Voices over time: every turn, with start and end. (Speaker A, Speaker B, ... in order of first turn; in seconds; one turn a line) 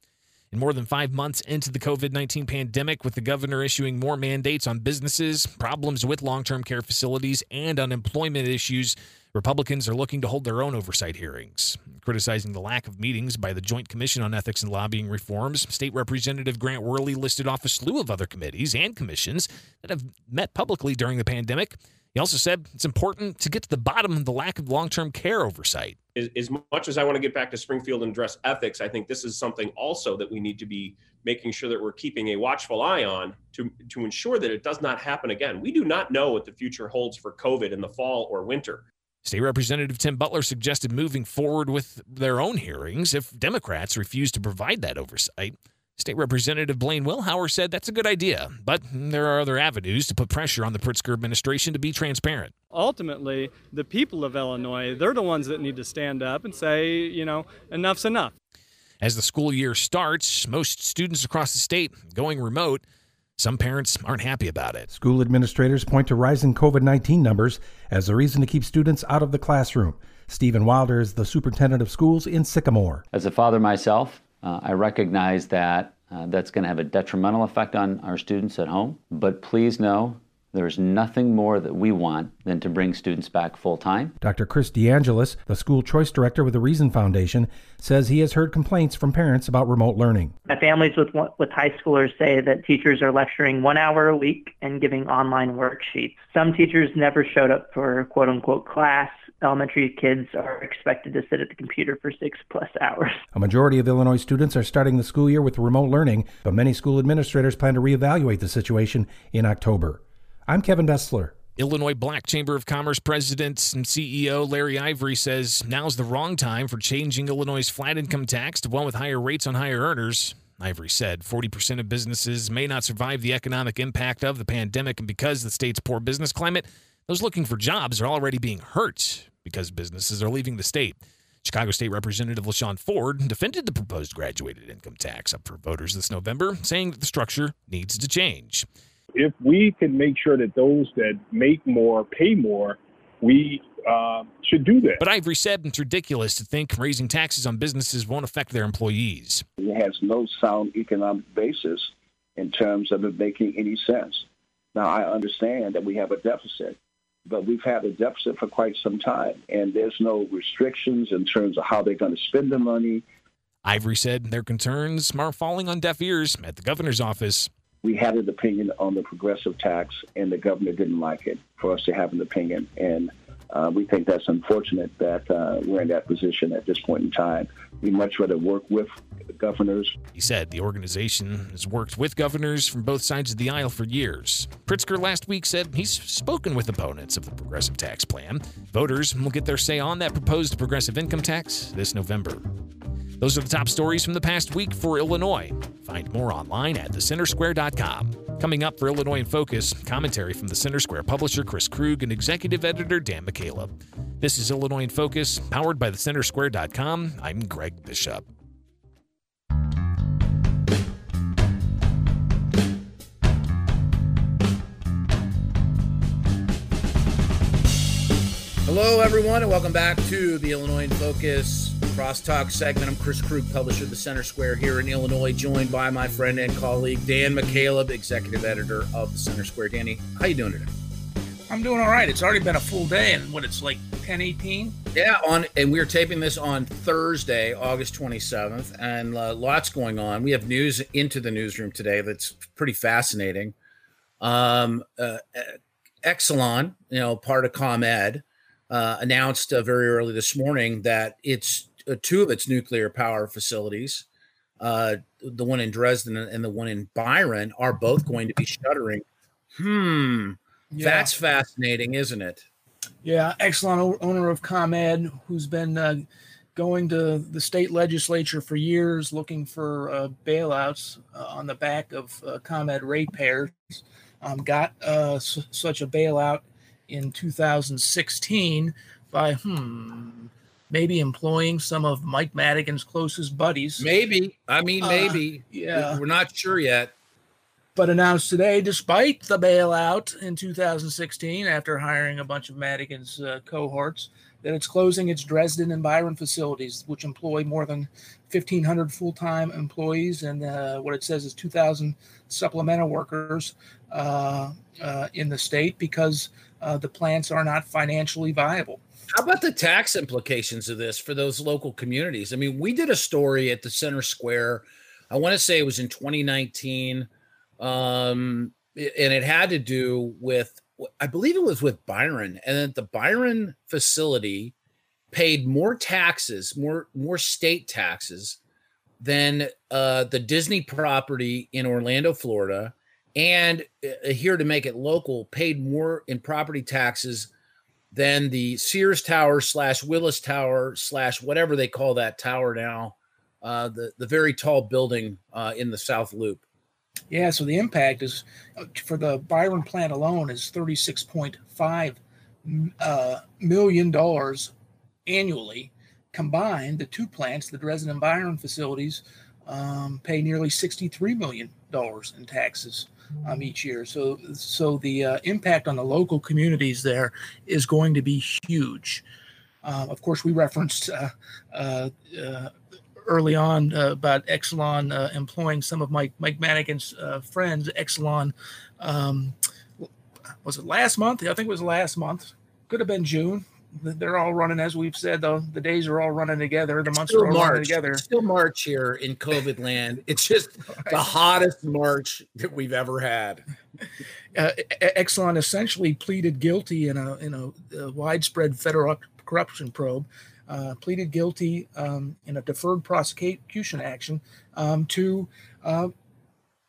Speaker A: 0.5-26.0
Speaker B: 26.1-38.8
Speaker A: 39.2-52.5
Speaker C: 52.8-58.2
Speaker A: 59.0-62.8
Speaker A: 63.4-64.9
Speaker D: 64.9-73.0
Speaker E: 73.1-84.1
Speaker D: 84.2-90.3
Speaker F: 90.5-103.2
Speaker D: 103.3-111.3
Speaker A: 111.6-138.7
Speaker G: 139.1-145.0
Speaker A: 145.0-149.4
Speaker H: 149.6-163.0
Speaker A: 163.6-167.5
Speaker H: 167.8-179.9
Speaker A: 180.1-192.4
Speaker A: 193.2-208.2
Speaker I: 218.7-230.7
Speaker J: 231.5-234.8
Speaker I: 234.9-243.5
Speaker I: 244.2-254.0
Speaker I: 254.6-262.4
Speaker J: 260.7-261.1
Speaker J: 263.0-266.0
Speaker J: 266.5-283.9
Speaker I: 283.8-286.9
Speaker J: 284.8-286.0
Speaker J: 287.7-308.8
Speaker I: 309.1-324.5
Speaker I: 325.1-328.4
Speaker I: 329.0-337.3
Speaker I: 337.9-346.4
Speaker J: 347.1-354.5
Speaker J: 355.1-369.0
Speaker J: 369.6-372.5
Speaker J: 373.0-379.9
Speaker J: 380.4-388.0
Speaker I: 386.9-393.4
Speaker J: 394.3-405.9